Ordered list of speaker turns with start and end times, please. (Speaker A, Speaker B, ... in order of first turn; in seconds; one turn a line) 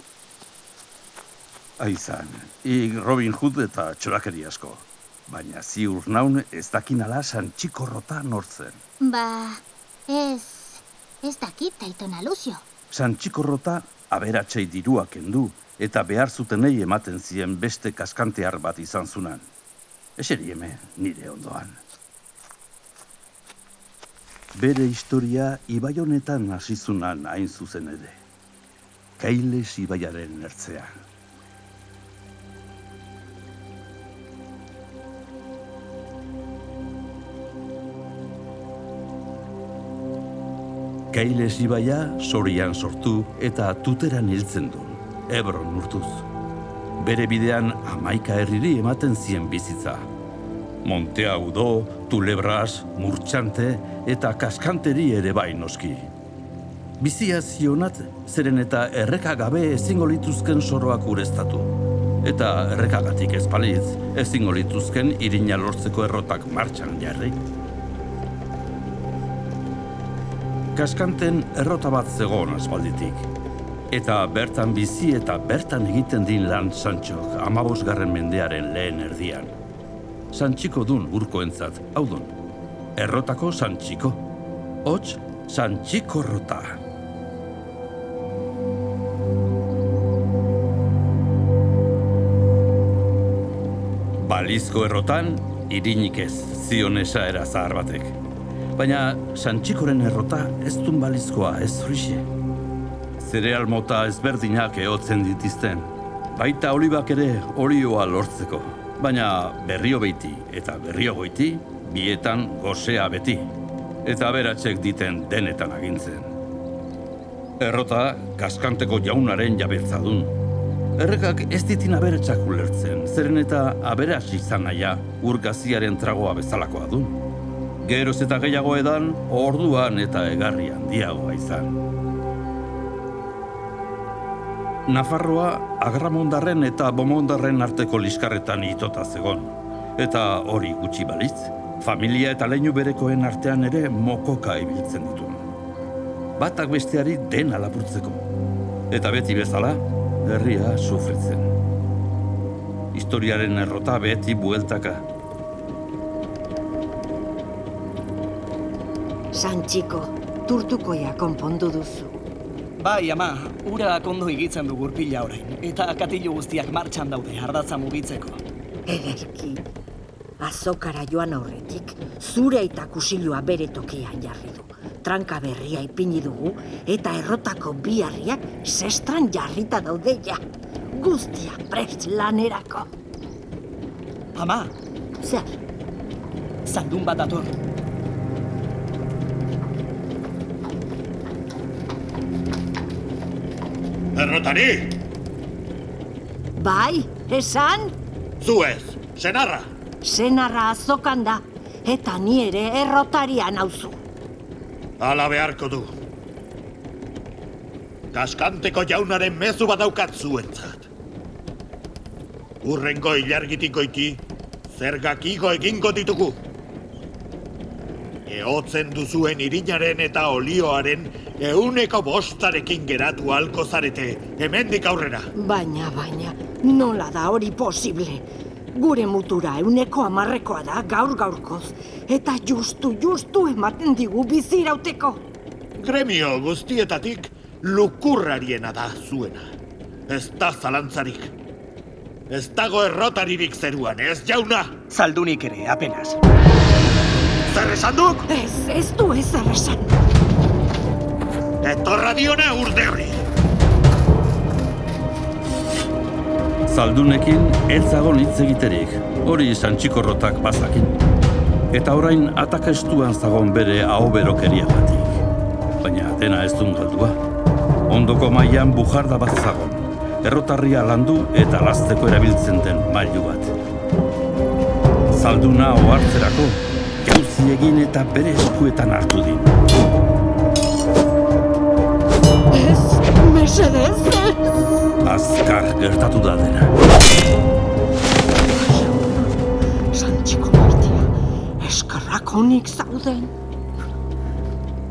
Speaker A: 1.8-8.8
Speaker B: 9.0-12.6
Speaker A: 12.9-19.4
Speaker A: 20.2-21.8
Speaker A: 24.5-28.2
Speaker A: 29.2-31.0
Speaker A: 41.1-46.2
Speaker A: 47.0-50.1
Speaker A: 50.8-56.1
Speaker A: 57.0-67.4
Speaker A: 70.7-73.3
Speaker A: 73.9-79.5
Speaker A: 80.3-82.3
Speaker A: 83.0-84.2
Speaker A: 84.8-86.8
Speaker A: 94.2-98.2
Speaker A: 98.8-102.3
Speaker A: 103.2-113.5
Speaker A: 114.0-116.3
Speaker A: 117.6-120.3
Speaker A: 121.0-127.2
Speaker A: 127.8-131.8
Speaker A: 134.9-145.4
Speaker A: 146.4-148.2
Speaker A: 148.9-151.5
Speaker A: 152.9-155.1
Speaker C: 159.3-162.2
Speaker D: 162.8-168.4
Speaker C: 168.8-169.6
Speaker C: 170.4-180.4
Speaker C: 180.9-182.9
Speaker D: 184.3-184.7
Speaker C: 185.2-185.6
Speaker D: 186.6-187.5
Speaker E: 194.1-194.9
Speaker C: 196.6-198.0
Speaker E: 198.4-199.7
Speaker C: 200.0-204.0
Speaker E: 205.0-205.9
Speaker E: 208.1-210.8
Speaker E: 212.6-216.4
Speaker E: 218.3-225.3
Speaker C: 225.3-235.2
Speaker E: 235.8-239.5
Speaker E: 240.1-241.3
Speaker E: 242.3-244.8
Speaker D: 244.9-246.2
Speaker E: 247.5-248.3
Speaker C: 248.3-250.0
Speaker E: 251.6-253.2
Speaker A: 256.7-261.0
Speaker A: 261.7-265.2
Speaker A: 265.8-267.2
Speaker A: 267.9-273.5
Speaker A: 275.1-279.6
Speaker C: 282.5-284.5
Speaker A: 285.0-286.7
Speaker C: 288.4-289.4
Speaker C: 289.9-293.3